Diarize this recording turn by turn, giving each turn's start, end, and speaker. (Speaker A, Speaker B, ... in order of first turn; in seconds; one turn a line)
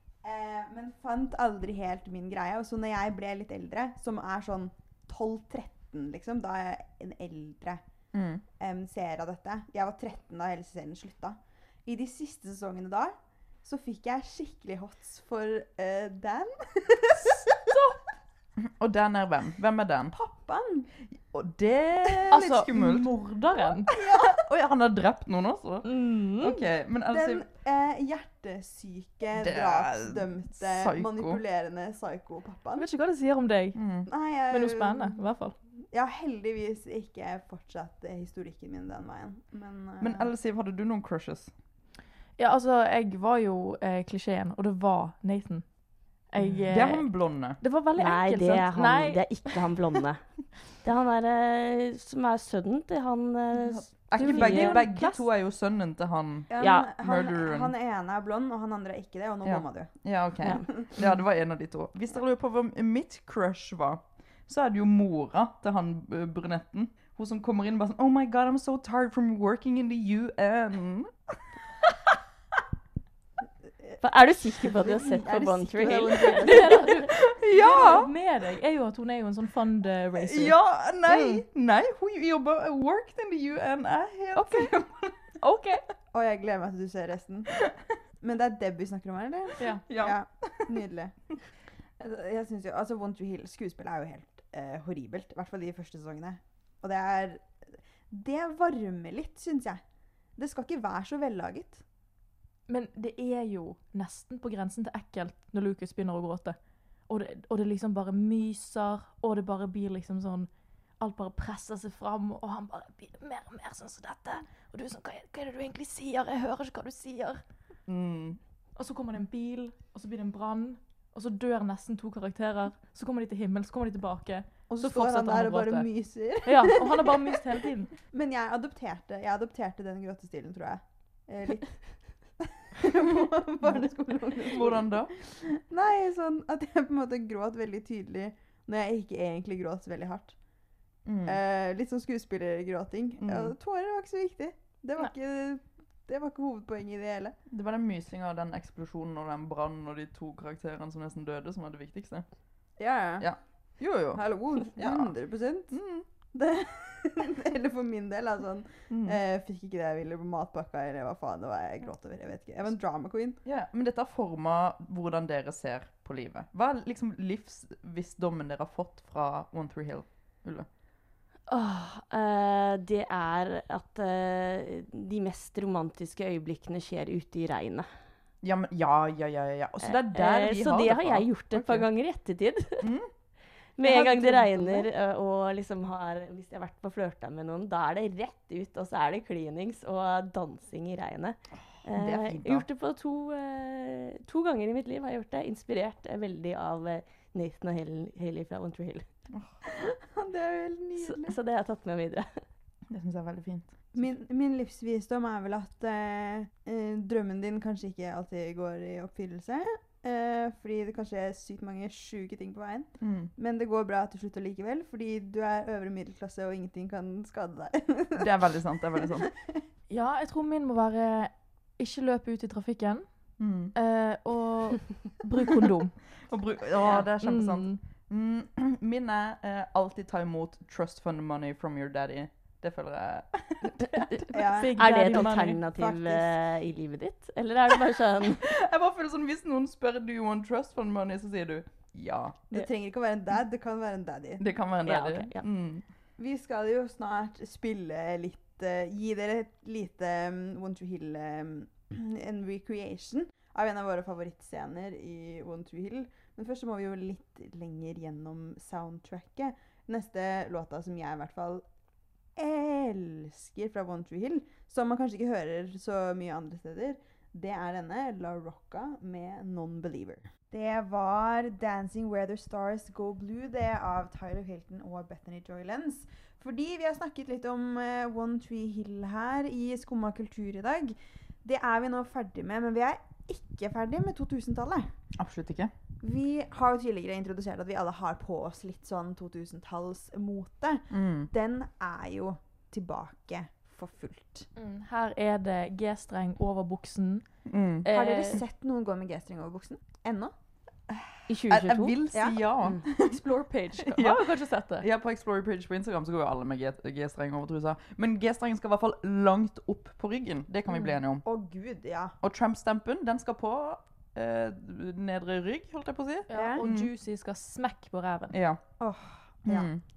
Speaker A: 0.2-7.8
Speaker B: 8.1-8.4
Speaker A: 8.6-17.8
Speaker C: 17.7-18.0
Speaker B: 18.6-20.1
Speaker A: 20.1-20.9
Speaker B: 21.1-27.5
Speaker C: 22.3-23.9
Speaker A: 23.9-24.4
Speaker D: 25.9-26.6
Speaker A: 27.1-32.9
Speaker B: 29.3-31.4
Speaker C: 32.8-33.8
Speaker B: 33.8-34.1
Speaker A: 34.1-35.2
Speaker C: 34.5-35.5
Speaker A: 35.9-40.3
Speaker B: 40.0-41.5
Speaker C: 42.4-45.8
Speaker C: 46.3-49.6
Speaker B: 46.4-47.6
Speaker D: 48.0-55.1
Speaker B: 53.7-57.7
Speaker C: 54.2-55.1
Speaker A: 56.5-61.0
Speaker D: 56.6-56.9
Speaker B: 59.4-71.1
Speaker D: 74.0-76.8
Speaker A: 74.6-76.9
Speaker C: 76.4-80.6
Speaker B: 77.2-78.1
Speaker A: 77.7-78.0
Speaker B: 80.1-85.4
Speaker C: 84.3-84.8
Speaker C: 85.4-85.8
Speaker A: 86.1-87.7
Speaker A: 88.2-91.2
Speaker B: 89.6-90.8
Speaker A: 92.0-99.8
Speaker A: 100.4-101.8
Speaker C: 102.7-106.6
Speaker C: 107.1-117.4
Speaker B: 117.9-118.4
Speaker C: 118.8-125.9
Speaker A: 124.7-131.8
Speaker C: 126.4-127.9
Speaker A: 132.4-140.4
Speaker B: 134.4-135.1
Speaker B: 141.1-141.4
Speaker A: 141.2-147.3
Speaker B: 143.2-143.6
Speaker B: 147.5-152.2
Speaker A: 152.8-153.3
Speaker B: 153.2-155.1
Speaker A: 154.1-155.8
Speaker B: 155.7-156.1
Speaker A: 156.3-163.4
Speaker B: 158.9-159.2
Speaker B: 163.4-170.7
Speaker D: 171.5-177.9
Speaker B: 178.4-181.9
Speaker D: 179.8-182.9
Speaker B: 182.8-183.1
Speaker D: 183.8-199.1
Speaker B: 183.8-184.9
Speaker B: 191.8-192.7
Speaker A: 199.7-201.4
Speaker D: 201.0-202.4
Speaker B: 202.9-204.0
Speaker A: 203.9-219.6
Speaker B: 213.0-213.3
Speaker B: 218.2-219.3
Speaker C: 219.9-223.1
Speaker B: 223.4-223.7
Speaker C: 223.8-226.0
Speaker B: 226.2-234.1
Speaker C: 226.9-227.8
Speaker C: 234.3-235.6
Speaker A: 234.3-236.3
Speaker D: 234.8-238.4
Speaker B: 238.4-242.5
Speaker A: 242.5-244.4
Speaker B: 244.4-245.8
Speaker D: 244.8-245.4
Speaker A: 246.2-261.6
Speaker A: 262.4-284.9
Speaker B: 285.2-285.7
Speaker A: 286.0-294.5
Speaker B: 290.9-291.3
Speaker C: 294.6-298.4
Speaker B: 297.5-297.9
Speaker A: 297.9-300.3
Speaker D: 301.3-302.0
Speaker B: 301.5-311.2
Speaker A: 302.1-302.4
Speaker C: 303.0-304.9
Speaker A: 311.2-312.1
Speaker B: 312.2-316.9
Speaker C: 316.3-318.4
Speaker A: 316.3-316.6
Speaker B: 318.3-318.6
Speaker A: 318.8-319.7
Speaker B: 319.5-319.8